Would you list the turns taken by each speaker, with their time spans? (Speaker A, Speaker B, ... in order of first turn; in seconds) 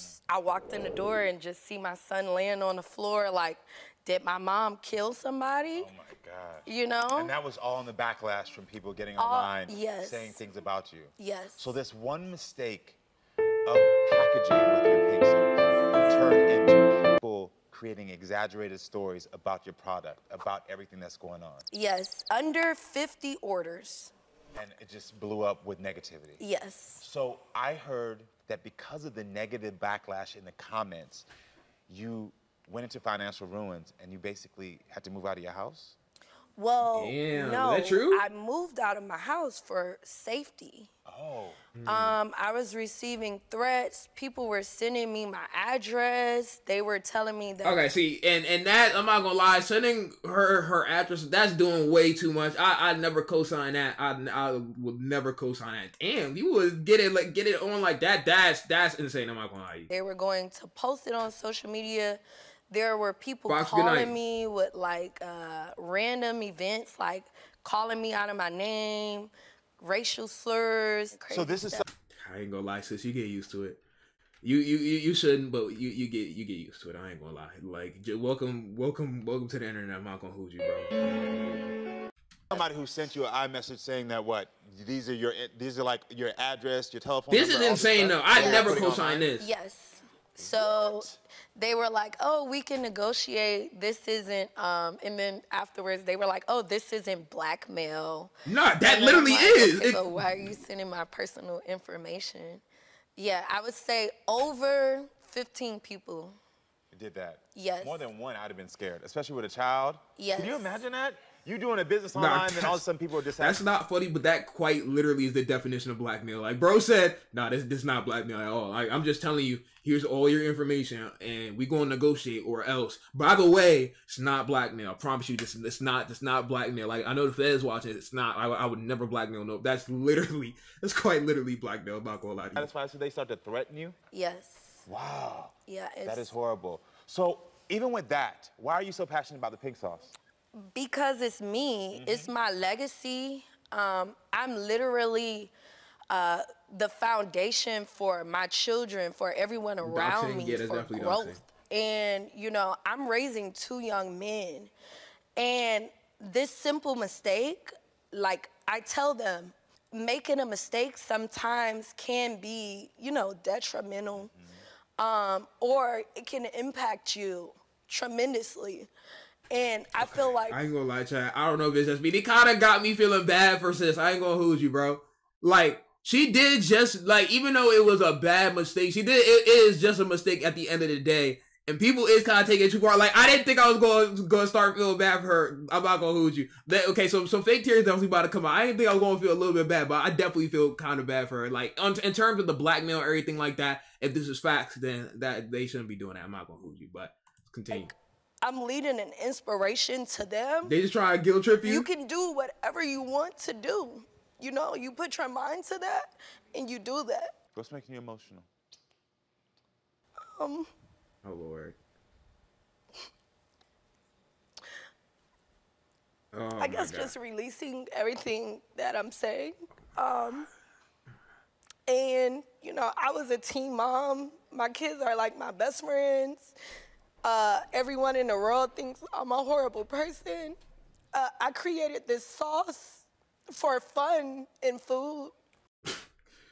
Speaker A: 0.3-5.9, 6.7-7.3, 9.2-10.4, 11.2-11.7, 21.7-24.1, 26.4-27.0, 36.6-40.9, 41.9-47.8, 59.9-71.9, 88.4-102.6, 103.2-106.4, 107.5-108.0, 110.2-110.8, 134.1-134.9, 135.7-136.3, 140.6-145.5, 146.1-154.7, 155.4-164.3, 165.0-168.9, 169.5-170.6, 197.7-200.8, 201.6-207.3, 210.2-210.7, 216.6-220.5, 221.9-226.6, 227.2-230.6, 231.1-235.3
Speaker B: 5.7-13.0, 13.7-21.7, 24.6-26.4, 27.0-31.3, 31.9-36.0, 41.1-41.6, 71.3-71.9, 82.5-89.3, 90.4-91.1, 106.9-113.6, 132.6-134.0, 134.9-140.1, 141.9-142.3, 164.2-164.6, 207.6-208.5
Speaker C: 36.9-38.2, 41.8-42.2, 47.6-59.9, 63.5-64.2, 72.1-73.8, 74.4-80.9, 87.3-89.5, 98.5-100.1, 112.1-112.8, 113.4-132.7, 149.8-151.4, 170.0-197.9, 200.7-201.9, 211.2-211.8, 216.3-217.1